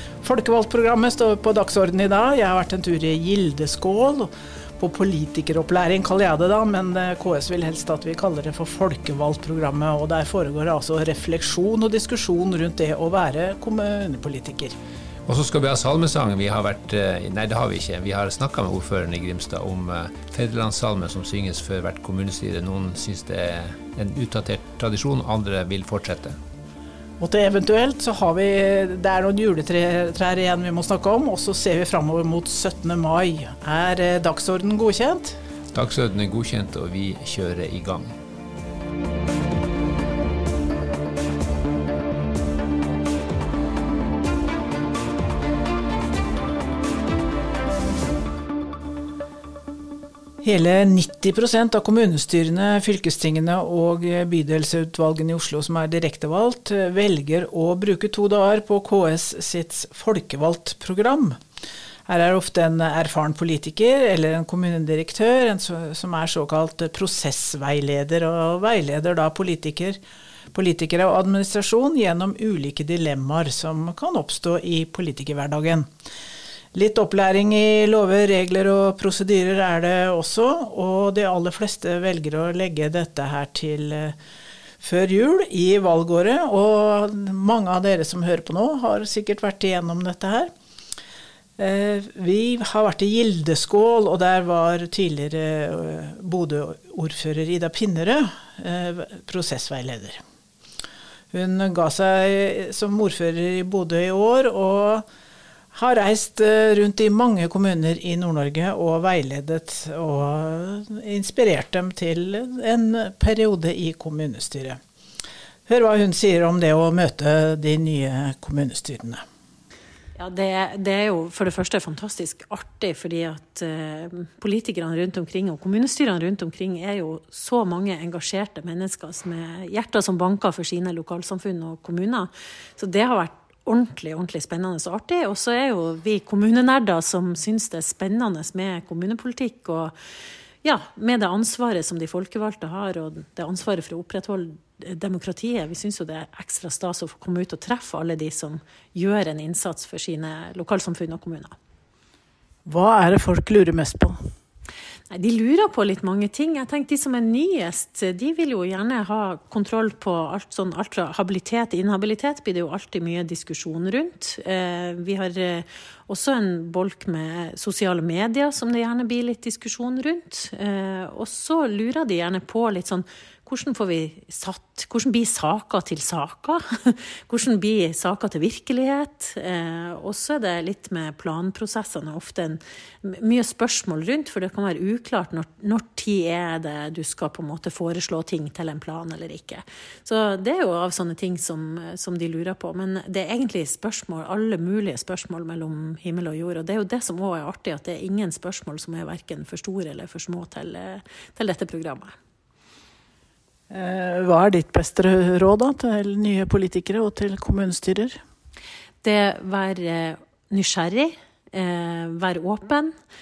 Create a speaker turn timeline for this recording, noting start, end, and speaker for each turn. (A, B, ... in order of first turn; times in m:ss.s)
0:00.2-0:14.7 A
0:15.3-0:26.4 B
0:27.2-0:35.3 A
0:35.7-0:38.1 B
0:50.4-1:01.4 A
1:02.1-1:10.0 A
1:10.5-1:15.9 A
1:16.7-1:24.1 A
1:24.8-1:30.5 A
1:31.6-1:40.2 A
1:41.3-1:45.0 A
1:45.7-1:54.8 A
1:55.7-1:59.2 A
2:00.2-2:19.9 C
2:20.6-2:31.5 C
2:32.6-2:34.1 A
2:35.1-3:22.1 C
3:23.7-3:28.2 A
3:29.0-3:32.9 C